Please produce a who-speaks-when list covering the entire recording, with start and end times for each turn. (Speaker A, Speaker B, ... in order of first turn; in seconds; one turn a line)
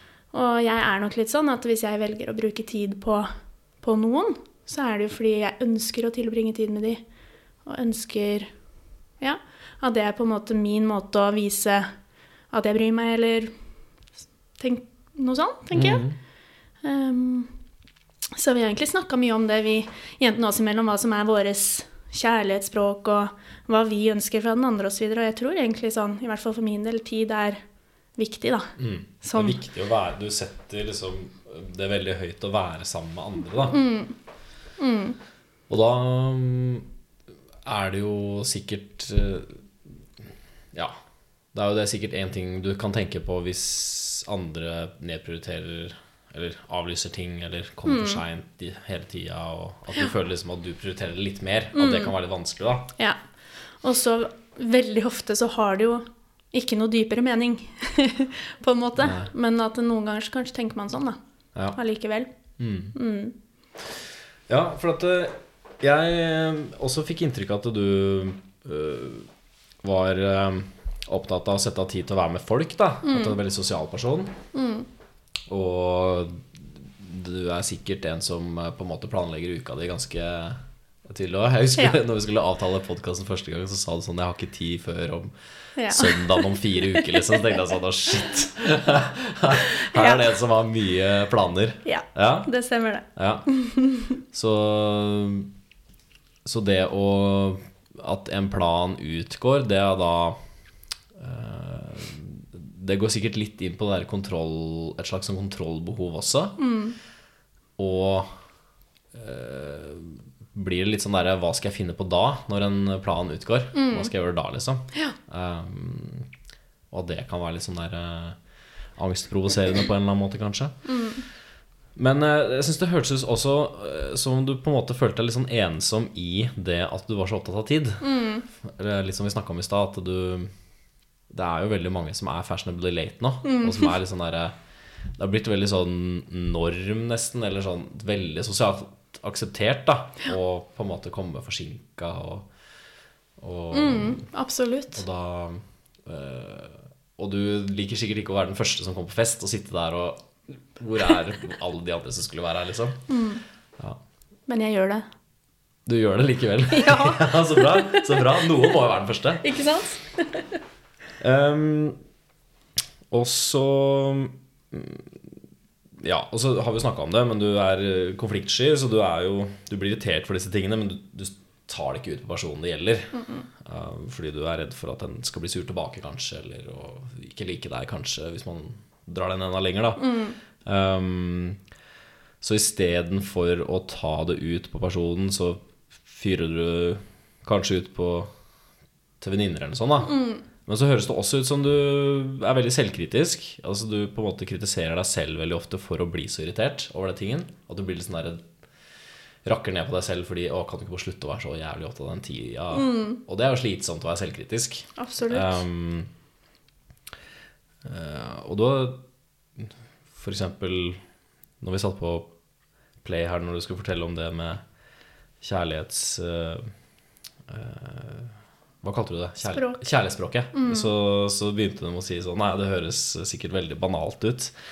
Speaker A: 0.3-3.3
Speaker A: 3.8-7.0
Speaker A: 7.7-8.5
Speaker A: 9.2-11.9
Speaker A: 12.5-13.5
Speaker A: 14.6-16.1
Speaker B: 15.7-16.2
Speaker A: 16.8-17.5
Speaker A: 18.4-27.6
Speaker A: 28.2-29.6
Speaker B: 28.8-33.8
Speaker A: 33.7-34.1
Speaker A: 34.8-35.2
Speaker B: 35.7-36.9
Speaker B: 37.6-39.6
Speaker B: 41.5-52.9
Speaker A: 47.9-48.2
Speaker A: 51.8-52.1
Speaker A: 53.8-61.2
Speaker B: 59.0-59.3
Speaker A: 61.7-62.3
Speaker B: 62.6-63.0
Speaker A: 62.9-63.4
Speaker B: 64.5-69.3
Speaker B: 69.8-74.4
Speaker A: 73.0-73.4
Speaker A: 74.5-74.9
Speaker B: 75.5-85.3
Speaker A: 85.8-87.6
Speaker B: 85.9-92.5
Speaker A: 89.8-90.3
Speaker A: 91.8-94.2
Speaker B: 93.2-93.5
Speaker B: 94.3-95.5
Speaker B: 96.5-100.4
Speaker B: 101.2-106.6
Speaker A: 106.6-107.0
Speaker B: 107.8-108.3
Speaker B: 109.1-116.3
Speaker A: 113.7-114.1
Speaker B: 116.9-118.4
Speaker B: 119.0-120.8
Speaker A: 120.9-121.2
Speaker B: 122.0-128.1
Speaker A: 128.0-128.5
Speaker B: 128.6-130.5
Speaker B: 131.3-134.5
Speaker A: 133.4-133.9
Speaker B: 135.2-142.5
Speaker B: 143.4-144.2
Speaker A: 143.7-145.0
Speaker B: 144.9-153.1
Speaker A: 153.1-153.4
Speaker A: 154.5-155.1
Speaker B: 155.9-159.6
Speaker A: 156.7-158.4
Speaker A: 159.4-160.6
Speaker B: 161.2-162.0
Speaker B: 163.1-165.2
Speaker B: 166.0-180.1
Speaker A: 173.1-173.5
Speaker A: 180.0-180.4
Speaker B: 180.6-181.6
Speaker B: 182.4-188.3
Speaker B: 189.2-198.5
Speaker A: 190.0-190.4
Speaker B: 199.4-206.1
Speaker A: 202.7-203.2
Speaker A: 205.0-205.6
Speaker B: 207.8-209.0
Speaker B: 209.6-211.0
Speaker B: 211.6-212.3
Speaker B: 213.0-214.6
Speaker B: 215.4-216.7
Speaker B: 217.5-224.5
Speaker A: 219.5-219.8
Speaker A: 220.5-220.9